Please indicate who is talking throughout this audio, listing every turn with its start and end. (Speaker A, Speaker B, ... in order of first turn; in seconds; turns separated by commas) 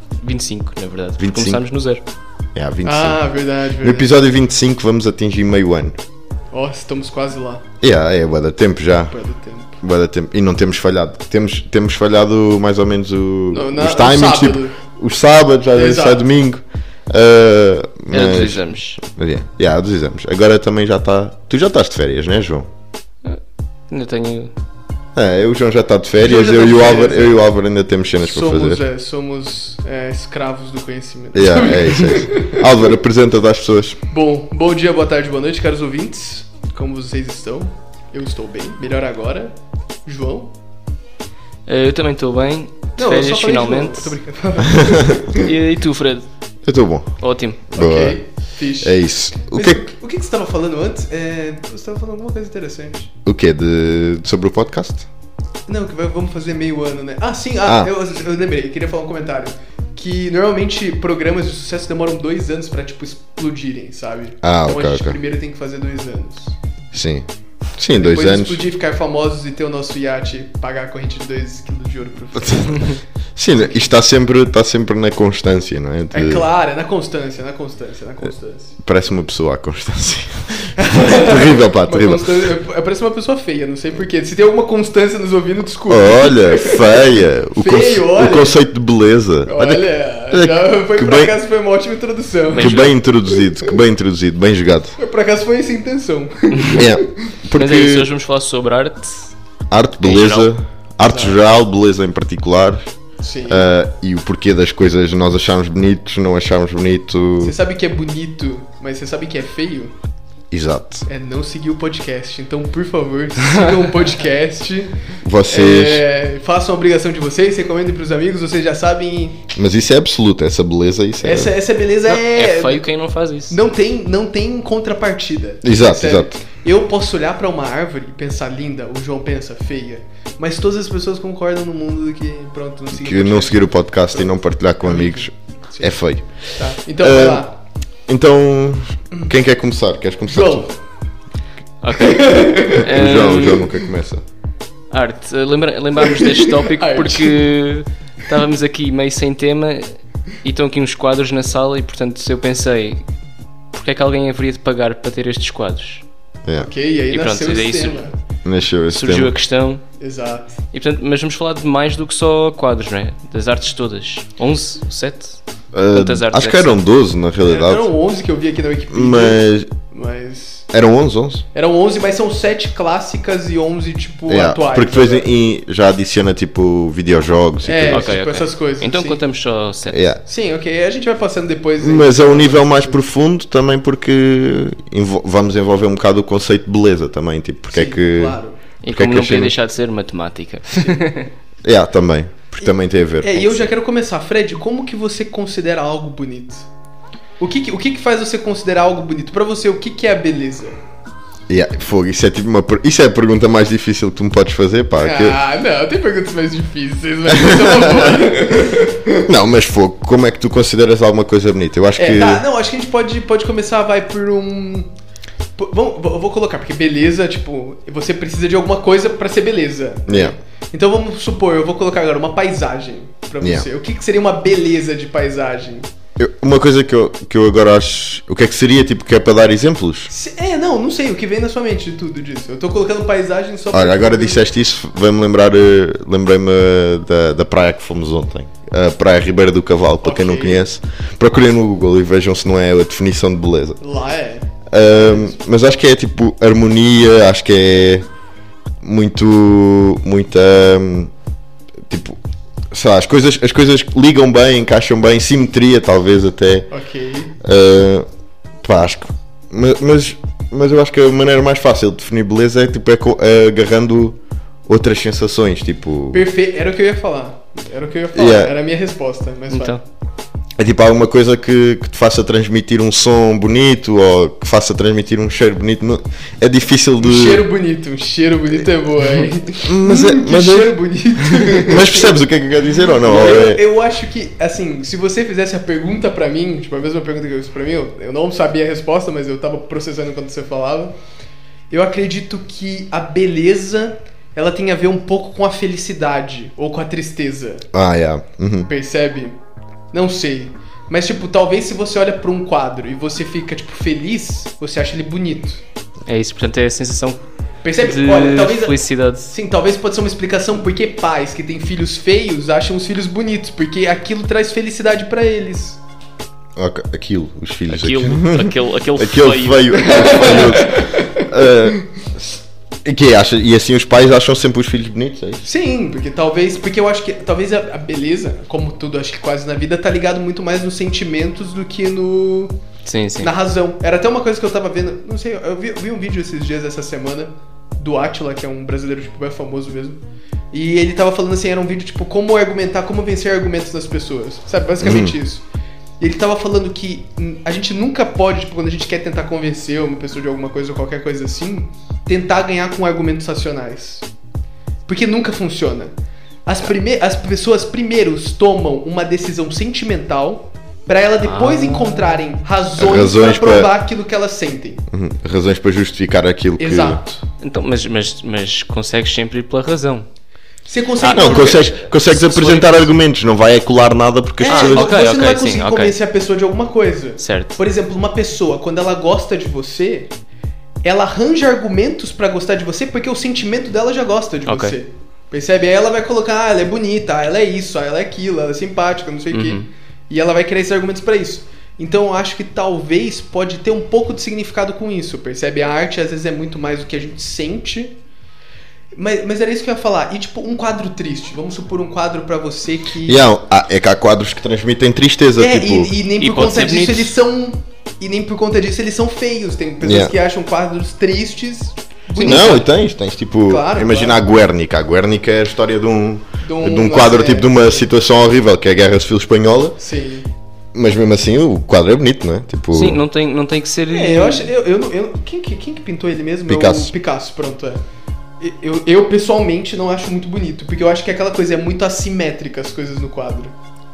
Speaker A: 0.2-2.0, Speaker B: 1.2-1.6, Speaker B: 2.5-3.2, Speaker C: 2.8-4.1, Speaker B: 3.8-6.0, Speaker C: 6.5-7.6, Speaker B: 7.8-9.1, Speaker C: 9.1-9.8, Speaker B: 9.8-22.7, Speaker C: 13.5-14.8, Speaker C: 15.7-16.2, Speaker A: 18.1-19.0, Speaker A: 23.2-24.5, Speaker B: 25.1-28.8, Speaker C: 26.2-27.4, Speaker C: 28.2-32.6, Speaker B: 31.3-34.0, Speaker C: 34.1-40.5, Speaker A: 41.7-44.2, Speaker C: 43.0-45.5, Speaker B: 44.8-45.1, Speaker A: 45.3-46.3, Speaker B: 46.6-48.2, Speaker A: 47.2-47.6, Speaker C: 47.8-53.1, Speaker B: 48.8-49.8, Speaker B: 53.2-55.1, Speaker C: 55.7-66.6, Speaker B: 57.6-57.9, Speaker B: 64.4-65.2, Speaker B: 66.9-68.6, Speaker C: 67.9-73.0, Speaker B: 73.3-76.5, Speaker C: 76.1-78.8, Speaker B: 78.8-82.5, Speaker C: 80.8-88.6, Speaker B: 85.9-91.3, Speaker C: 89.4-92.9, Speaker A: 92.5-92.9, Speaker B: 92.5-95.0, Speaker C: 95.0-97.3, Speaker A: 96.6-96.8, Speaker B: 96.8-98.1, Speaker A: 97.5-99.3, Speaker B: 99.7-102.9, Speaker A: 100.0-100.5, Speaker C: 101.0-101.3, Speaker C: 103.2-103.7, Speaker B: 103.5-107.5, Speaker C: 107.4-109.9, Speaker B: 110.5-111.0, Speaker C: 111.0-119.5, Speaker A: 113.4-113.7, Speaker B: 115.2-116.0, Speaker B: 119.5-121.5, Speaker C: 121.2-122.8, Speaker A: 122.0-123.6, Speaker C: 123.5-136.0, Speaker B: 125.6-126.4, Speaker B: 132.9-137.4, Speaker C: 136.5-137.5, Speaker B: 138.1-140.7, Speaker C: 140.3-140.8, Speaker A: 141.8-143.7, Speaker C: 141.9-143.8, Speaker B: 142.9-144.2, Speaker A: 144.9-153.0, Speaker C: 146.0-147.4, Speaker A: 153.7-156.0, Speaker C: 156.6-158.1, Speaker A: 157.1-158.1, Speaker B: 158.4-159.3, Speaker A: 158.9-159.8, Speaker C: 160.0-160.5, Speaker A: 160.7-165.4, Speaker B: 165.7-167.9, Speaker A: 165.9-166.7, Speaker C: 167.4-170.7, Speaker B: 168.9-169.7, Speaker B: 170.7-171.4, Speaker C: 171.5-175.3, Speaker B: 174.3-178.1, Speaker C: 177.6-179.2, Speaker A: 177.9-180.0, Speaker B: 179.9-180.2, Speaker C: 180.2-183.0, Speaker B: 181.8-189.5, Speaker C: 187.7-188.6, Speaker A: 188.8-191.3, Speaker C: 190.7-191.0, Speaker B: 191.6-193.7, Speaker C: 192.6-196.7, Speaker C: 197.4-200.8, Speaker B: 201.5-205.4, Speaker C: 205.0-209.1, Speaker B: 207.3-208.3, Speaker B: 209.2-212.4, Speaker C: 212.0-214.9, Speaker C: 215.6-225.9, Speaker B: 220.1-220.3, Speaker B: 223.4-223.7, Speaker B: 226.2-230.1, Speaker C: 230.1-234.5, Speaker B: 233.7-243.8, Speaker C: 240.0-240.6, Speaker C: 243.8-245.3, Speaker B: 244.7-248.1, Speaker B: 248.8-251.1, Speaker B: 251.8-252.2, Speaker B: 252.7-256.7, Speaker C: 256.7-257.4, Speaker B: 257.4-258.1, Speaker B: 258.6-266.2, Speaker C: 266.1-269.8, Speaker B: 268.1-268.5, Speaker A: 269.5-269.8, Speaker B: 270.6-277.4, Speaker C: 277.0-282.1, Speaker B: 279.6-283.6, Speaker C: 283.0-290.9, Speaker C: 291.7-297.7, Speaker B: 297.7-298.7, Speaker C: 298.6-299.4, Speaker C: 299.9-305.6, Speaker A: 306.1-307.2, Speaker C: 307.6-315.8, Speaker A: 307.8-309.2, Speaker B: 316.6-325.4, Speaker A: 317.7-320.7, Speaker C: 319.8-321.3, Speaker C: 325.4-332.6, Speaker A: 332.8-333.3, Speaker C: 333.2-340.0, Speaker C: 340.5-345.4, Speaker B: 344.8-345.1, Speaker C: 346.0-354.1, Speaker C: 354.9-355.9, Speaker C: 356.4-364.8, Speaker A: 361.2-362.2, Speaker B: 362.8-363.7, Speaker B: 364.9-367.0, Speaker C: 366.6-367.2, Speaker A: 367.4-370.1, Speaker C: 370.7-371.9, Speaker A: 371.0-372.9, Speaker B: 371.1-374.9, Speaker C: 374.4-380.1, Speaker A: 374.5-375.9, Speaker A: 377.2-377.6, Speaker C: 380.8-397.9, Speaker A: 384.5-384.8, Speaker A: 389.3-389.7, Speaker C: 398.9-403.3, Speaker B: 403.1-405.9, Speaker C: 405.4-412.7, Speaker A: 406.2-407.1, Speaker B: 409.8-410.1, Speaker A: 412.1-412.6, Speaker B: 412.2-419.8, Speaker C: 413.4-414.2, Speaker C: 416.4-417.9, Speaker C: 419.8-420.3, Speaker B: 420.7-423.0, Speaker A: 422.7-424.5, Speaker C: 423.9-427.8, Speaker B: 426.5-426.9, Speaker C: 428.4-433.5